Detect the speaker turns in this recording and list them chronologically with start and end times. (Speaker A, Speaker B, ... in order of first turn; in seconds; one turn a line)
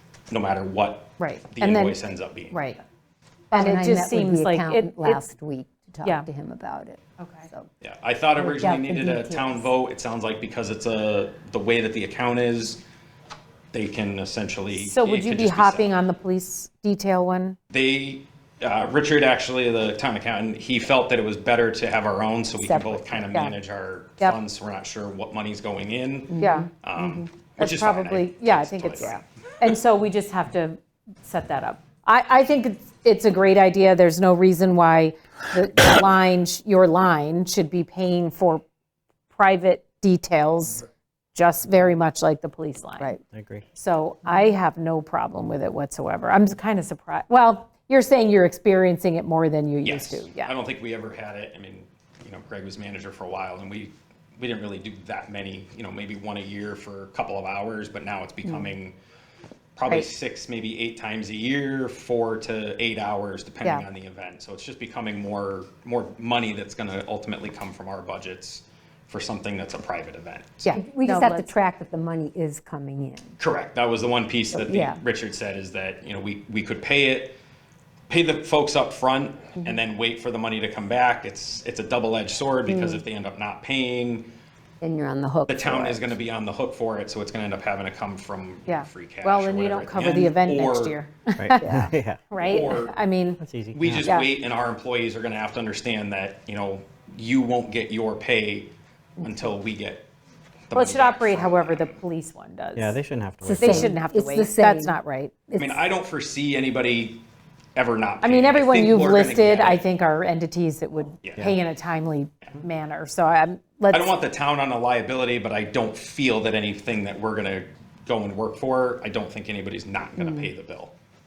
Speaker A: 0.3-2.6
Speaker B: 1.2-2.0
Speaker B: 2.5-2.8
Speaker C: 3.5-7.7
Speaker B: 3.5-5.2
Speaker B: 7.2-7.5
Speaker A: 7.8-12.8
Speaker C: 8.3-9.7
Speaker A: 13.7-15.9
Speaker B: 14.7-17.6
Speaker A: 17.7-29.1
Speaker B: 22.6-23.6
Speaker C: 26.3-27.2
Speaker B: 26.4-26.7
Speaker B: 27.6-38.6
Speaker B: 39.3-43.2
Speaker D: 43.3-43.6
Speaker B: 43.7-50.5
Speaker A: 49.8-58.9
Speaker A: 59.8-70.7
Speaker B: 70.6-71.5
Speaker C: 70.7-73.4
Speaker A: 73.4-77.4
Speaker C: 74.5-75.0
Speaker A: 78.1-84.3
Speaker C: 82.7-83.0
Speaker C: 84.8-86.1
Speaker A: 85.5-91.0
Speaker B: 88.7-93.4
Speaker D: 91.5-92.2
Speaker C: 91.6-91.9
Speaker A: 92.4-92.9
Speaker D: 93.4-94.0
Speaker A: 93.7-100.1
Speaker A: 100.7-102.0
Speaker B: 100.7-103.0
Speaker D: 102.9-103.9
Speaker C: 103.4-104.9
Speaker B: 103.6-105.7
Speaker A: 105.6-107.2
Speaker A: 107.8-109.8
Speaker B: 108.2-114.1
Speaker A: 111.2-111.5
Speaker A: 113.9-120.9